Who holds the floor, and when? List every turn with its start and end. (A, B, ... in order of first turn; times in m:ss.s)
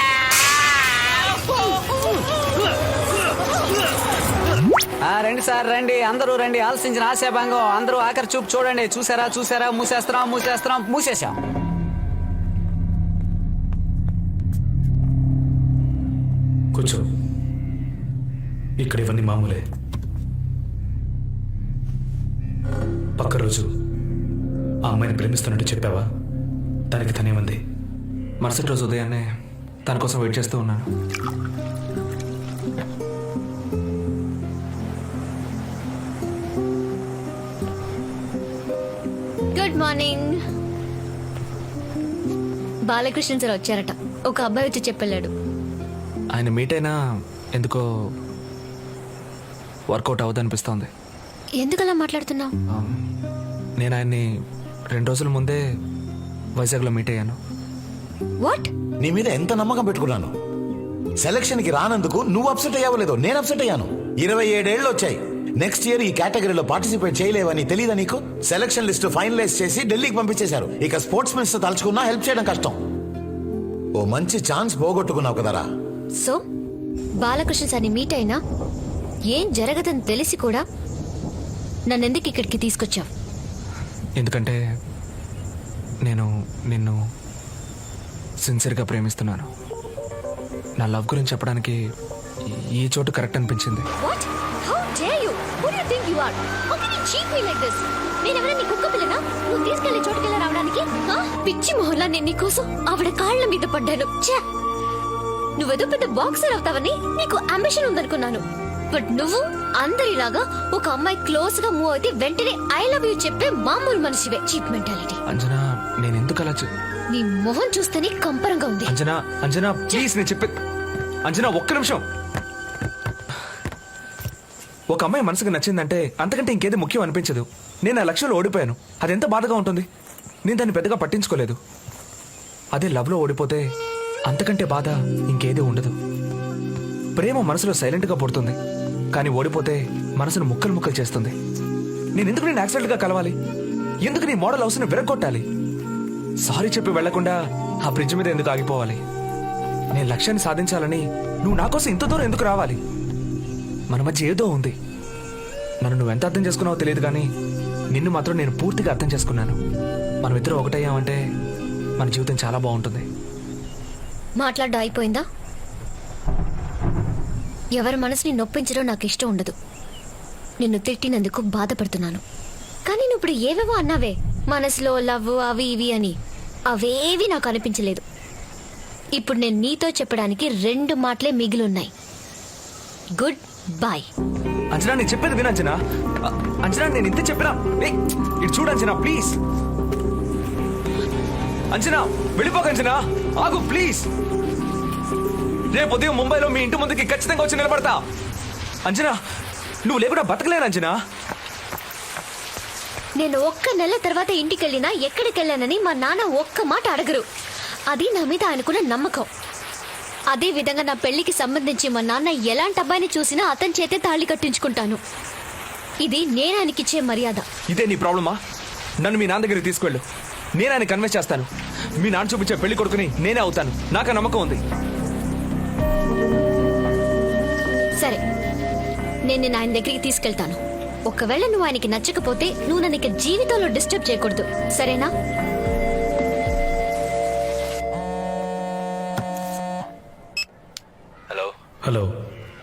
0:05.0-0:11.4 A
0:16.7-0:17.0 B
0:18.8-0:19.6 B
0:23.2-0:23.6 B
0:24.8-0:26.0 B
0:26.9-0:27.6 B
0:28.4-0:29.2 C
0:29.8-0:30.9 C
0:39.5-0:40.4 D
0:42.9-0:45.3 D
0:46.3-0:47.0 C
0:47.5-0:47.8 C
0:49.9-0:50.9 C
0:51.6-0:52.5 D
0:52.7-0:53.0 C
0:53.8-0:54.3 C
0:54.9-0:55.6 C
0:56.6-0:57.4 C
0:58.4-0:58.7 D
0:59.0-1:00.3 E
1:01.2-1:12.8 E
1:14.0-1:15.7 E
1:17.2-1:18.4 D
1:19.3-1:20.6 D
1:21.9-1:23.1 D
1:24.2-1:24.6 C
1:26.0-1:27.0 C
1:28.4-1:29.5 C
1:30.8-1:31.8 C
1:32.5-1:33.9 C
1:34.0-1:44.4 D
1:45.6-1:55.2 D
1:55.3-1:56.7 C
1:57.1-1:59.0 D
1:58.9-2:00.6 C
2:01.3-2:02.0 C
2:04.9-2:09.8 C
2:10.4-2:11.6 C
2:12.7-2:13.7 C
2:14.3-2:16.0 C
2:17.2-2:18.6 C
2:19.1-2:21.3 C
2:22.2-2:23.4 C
2:24.0-2:25.5 C
2:26.4-2:29.0 C
2:29.9-2:32.8 C
2:33.9-2:34.7 C
2:35.8-2:37.3 C
2:37.9-2:39.6 C
2:40.2-2:41.2 C
2:42.0-2:43.1 C
2:44.4-2:45.3 D
2:47.8-2:49.5 D
2:50.6-2:52.2 D
2:52.8-2:56.2 D
2:56.7-2:58.0 D
2:59.2-3:01.9 D
3:03.2-3:04.1 D
3:04.7-3:09.4 C
3:11.7-3:14.1 C
3:15.7-3:18.0 C
3:18.8-3:19.2 C
3:19.8-3:21.0 C
3:23.2-3:27.3 D
3:27.9-3:29.3 D
3:30.3-3:35.0 D
3:36.0-3:37.5 D
3:37.7-3:38.4 C
3:39.0-3:40.0 C
3:40.6-3:41.5 C
3:42.0-3:44.6 C
3:49.3-3:55.1 D
4:01.8-4:02.1 B